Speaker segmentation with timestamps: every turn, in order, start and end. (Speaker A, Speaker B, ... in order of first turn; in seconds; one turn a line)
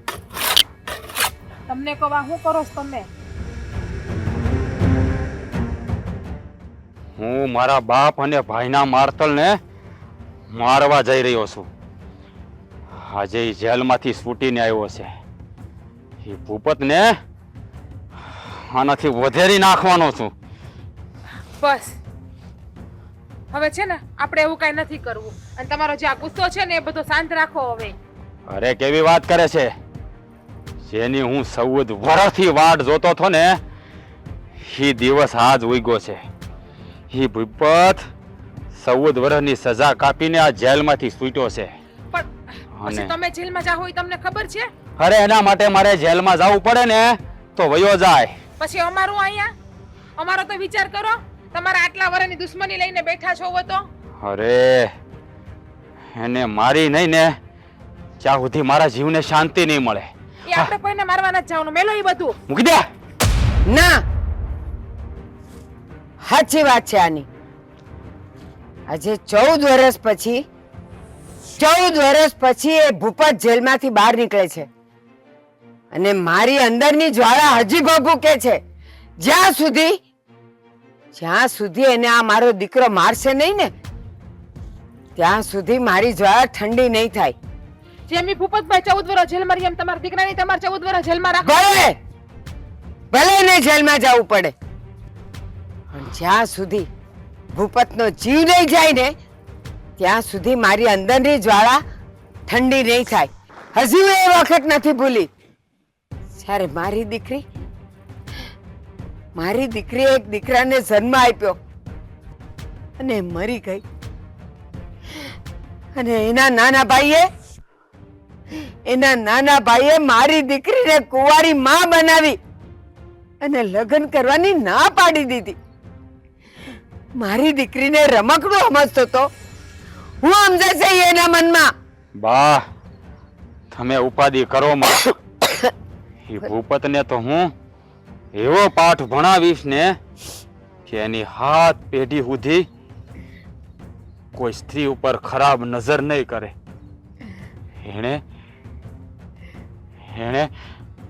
Speaker A: 1.7-3.1
Speaker B: 7.2-9.6
Speaker B: 10.5-11.7
Speaker B: 13.0-15.1
Speaker B: 16.2-17.1
Speaker B: 18.3-20.3
Speaker A: 21.6-21.9
Speaker A: 23.5-27.9
Speaker B: 28.5-29.7
Speaker B: 30.9-33.6
Speaker B: 34.6-36.2
Speaker B: 37.1-38.1
Speaker B: 38.8-41.7
Speaker B: 42.7-43.1
Speaker A: 42.9-44.7
Speaker B: 45.0-48.4
Speaker A: 48.6-49.5
Speaker A: 50.2-53.9
Speaker B: 54.2-54.9
Speaker B: 56.1-57.4
Speaker B: 58.2-60.7
Speaker A: 60.5-62.4
Speaker B: 62.5-62.9
Speaker C: 63.7-64.0
Speaker C: 66.3-67.3
Speaker C: 68.9-70.4
Speaker C: 71.6-74.7
Speaker C: 75.9-78.6
Speaker C: 79.2-80.0
Speaker C: 81.2-83.7
Speaker C: 85.2-87.4
Speaker A: 88.1-91.6
Speaker C: 91.4-92.0
Speaker C: 93.1-94.5
Speaker C: 95.9-96.9
Speaker C: 97.5-99.1
Speaker C: 100.0-101.8
Speaker C: 102.5-105.3
Speaker C: 106.4-107.5
Speaker C: 109.4-111.6
Speaker C: 113.0-113.8
Speaker C: 116.0-117.3
Speaker C: 118.9-122.4
Speaker C: 123.4-125.6
Speaker C: 127.2-129.3
Speaker C: 130.2-131.7
Speaker B: 132.2-132.7
Speaker B: 133.7-135.0
Speaker B: 136.2-137.5
Speaker B: 138.3-140.0
Speaker B: 140.9-142.7
Speaker B: 144.3-146.5
Speaker B: 147.8-148.2
Speaker B: 150.1-150.5